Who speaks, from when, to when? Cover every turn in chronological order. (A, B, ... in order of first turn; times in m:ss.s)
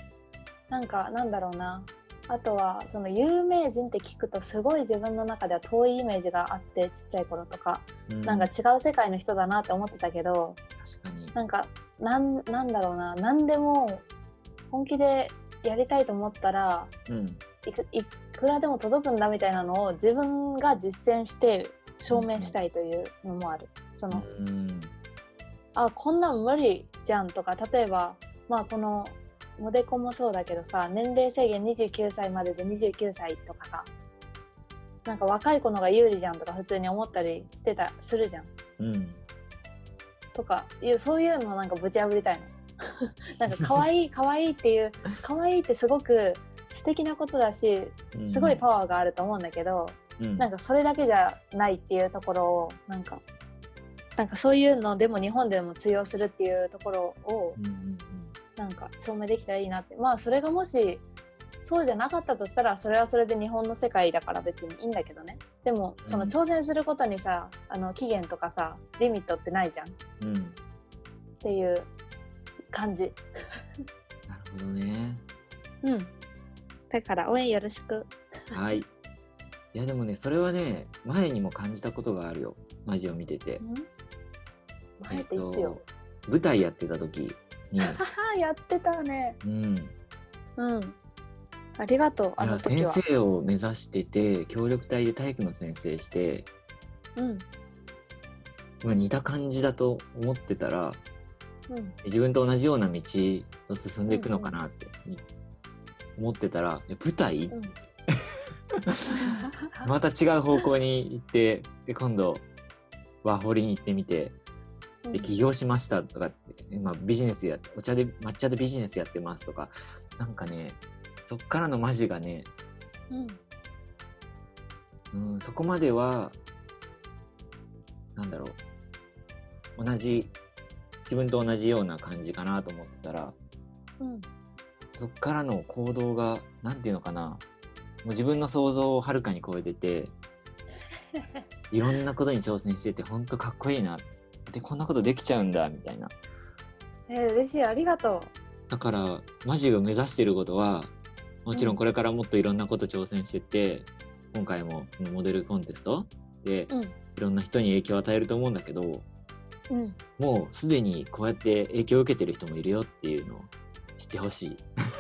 0:00.7-0:10.6 A
0:08.1-0:08.5 B
0:10.8-0:11.4 B
0:11.4-0:14.1 A
0:14.7-0:16.9 A
0:17.1-0:17.4 B
0:17.6-0:24.2 A
0:22.1-0:22.6 B
0:24.1-0:24.9 B
0:25.8-0:33.9 A
0:35.0-0:38.5 A
0:38.8-0:39.2 B
0:40.3-0:42.6 A
0:43.4-0:53.2 A
0:43.6-0:43.9 B
0:48.1-0:48.6 B
0:50.2-0:50.5 B
0:54.2-0:57.6 A
0:57.6-0:58.4 B
0:58.6-1:01.0 A
1:01.6-1:10.0 A
1:06.0-1:06.4 B
1:10.2-1:10.6 B
1:11.4-1:11.9 A
1:12.7-1:13.2 A
1:14.3-1:15.2 B
1:15.8-1:16.1 A
1:16.9-1:18.8 A
1:18.5-1:18.9 B
1:19.7-1:23.6 B
1:23.6-1:23.9 A
1:25.0-1:25.8 A
1:25.1-1:28.0 B
1:27.8-1:29.4 A
1:29.4-1:29.9 B
1:30.6-1:31.0 A
1:31.8-1:33.0 A
1:32.4-1:36.5 B
1:37.2-1:37.5 A
1:38.8-1:41.0 B
1:41.7-1:42.0 A
1:42.0-1:45.2 B
1:44.1-1:44.6 A
1:46.2-1:47.6 B
1:47.5-1:47.8 A
1:48.9-1:52.5 B
1:49.2-1:49.9 A
1:53.2-1:54.4 B
1:55.0-1:55.3 A
1:55.1-2:02.5 B
2:03.1-2:03.4 A
2:05.1-2:06.4 B
2:08.2-2:08.6 B
2:09.8-2:10.4 B
2:11.1-2:13.4 B
2:14.0-2:14.3 A
2:15.0-2:17.4 B
2:18.0-2:20.2 B
2:21.2-2:21.4 A
2:21.7-2:26.2 B
2:27.1-2:28.3 A
2:28.7-2:30.9 B
2:31.5-2:39.0 B
2:31.5-2:31.8 A
2:36.7-2:37.0 A
2:39.7-2:40.0 A
2:40.2-2:44.6 B